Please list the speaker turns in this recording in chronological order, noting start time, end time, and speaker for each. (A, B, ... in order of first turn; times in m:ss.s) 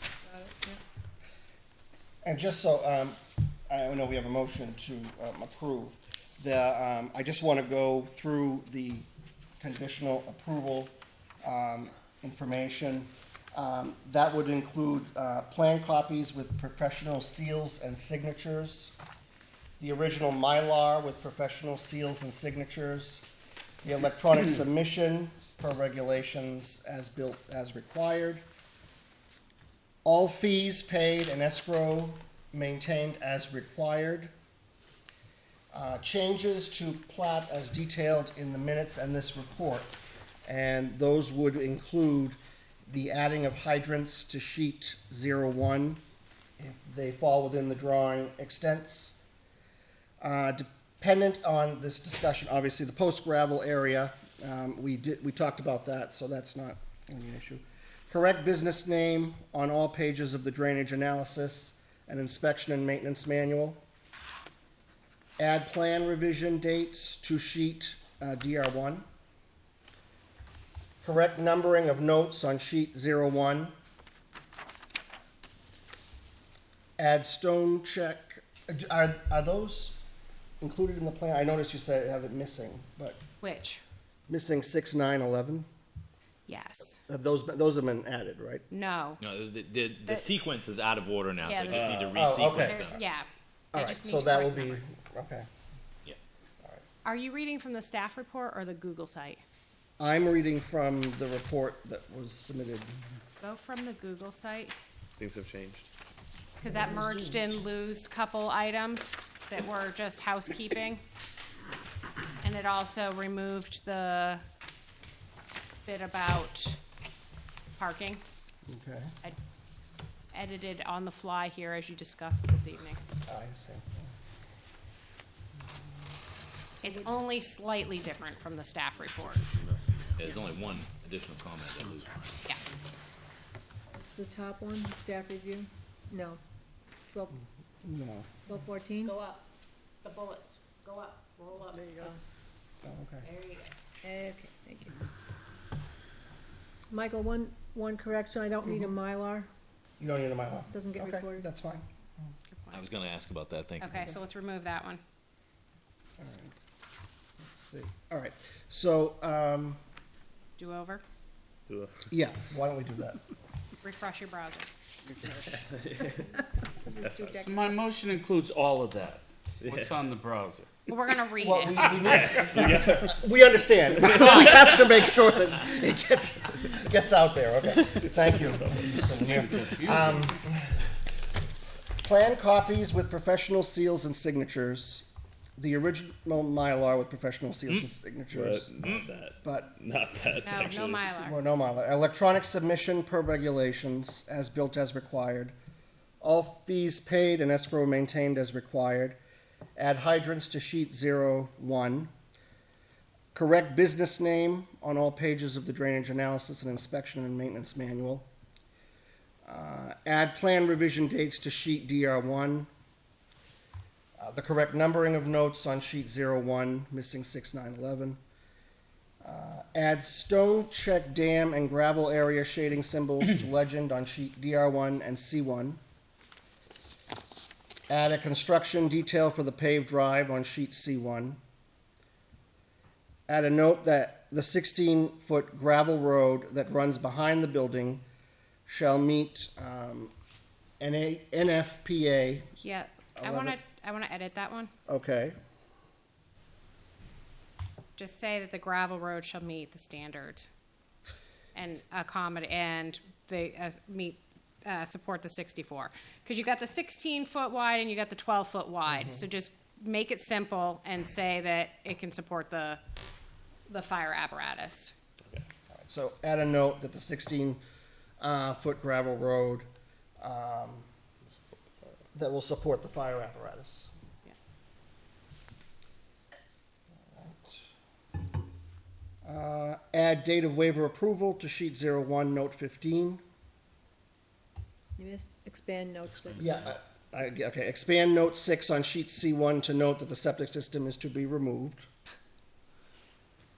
0:00.2-0:00.8 A
0:02.2-0:09.1 B
0:09.6-0:19.0 B
0:19.8-0:23.3 B
0:23.8-0:28.4 B
0:30.0-0:34.3 B
0:35.7-0:40.0 B
0:40.5-0:46.0 B
0:46.6-0:49.2 B
0:50.2-1:03.8 B
1:05.4-1:09.0 B
1:11.0-1:13.7 B
1:17.0-1:20.0 B
1:20.6-1:23.2 B
1:23.4-1:23.8 C
1:24.3-1:25.7 B
1:26.5-1:27.0 C
1:27.1-1:28.7 B
1:28.7-1:29.2 C
1:29.2-1:33.0 D
1:31.4-1:31.9 C
1:31.7-1:32.2 E
1:32.1-1:33.0 B
1:32.6-1:34.8 C
1:33.7-1:35.5 B
1:37.0-1:39.4 C
1:40.0-1:42.9 B
1:43.4-1:44.8 C
1:45.2-1:45.9 E
1:46.6-1:51.0 C
1:46.6-1:47.5 B
1:52.4-1:54.4 C
1:55.9-1:56.8 C
1:57.8-1:58.2 C
1:58.7-1:59.1 B
2:00.3-2:03.0 C
2:03.3-2:04.1 B
2:06.8-2:09.5 C
2:10.2-2:12.4 D
2:13.9-2:16.4 A
2:17.1-2:17.4 A
2:17.8-2:18.3 B
2:18.5-2:19.1 A
2:19.0-2:19.4 C
2:20.0-2:22.1 C
2:21.8-2:22.2 A
2:22.8-2:23.3 B
2:23.2-2:23.7 C
2:24.0-2:25.0 A
2:26.9-2:29.5 A
2:30.0-2:31.8 B
2:30.7-2:31.5 A
2:32.5-2:32.9 C
2:32.7-2:34.1 D
2:33.8-2:35.0 C
2:36.2-2:36.6 B
2:37.5-2:39.8 B
2:40.6-2:41.0 C
2:41.7-2:42.1 E
2:42.1-2:43.2 B
2:43.8-2:44.7 C
2:45.7-2:46.2 E
2:46.8-2:47.7 A
2:47.1-2:47.4 E
2:47.4-2:50.7 F
2:49.6-2:50.0 E
2:50.9-2:52.2 C
2:51.4-3:00.7 B
2:52.0-2:53.2 E
2:54.1-2:54.6 E
2:59.3-3:00.3 F
3:02.0-3:05.1 B
3:05.6-3:09.7 B
3:08.3-3:11.0 E
3:08.8-3:09.1 D
3:10.4-3:11.4 C
3:11.2-3:15.6 B
3:16.2-3:19.2 B
3:19.8-3:22.1 B
3:23.3-3:28.3 B
3:29.5-3:32.7 B
3:34.2-3:38.2 B
3:39.2-3:45.8 B
3:47.9-3:51.4 B
3:53.3-3:58.0 B
3:58.7-4:00.1 B
4:00.8-4:02.5 B
4:02.6-4:04.7 C
4:03.2-4:03.6 B
4:04.9-4:05.4 B
4:08.0-4:10.5 C
4:11.6-4:22.8 C
4:18.9-4:19.2 B
4:23.7-4:25.0 C
4:25.8-4:27.6 B
4:28.2-4:29.7 B
4:30.2-4:30.9 B
4:32.2-4:33.9 B
4:37.0-4:37.6 B
4:39.2-4:43.2 B
4:45.0-4:46.6 A
4:46.4-4:51.9 B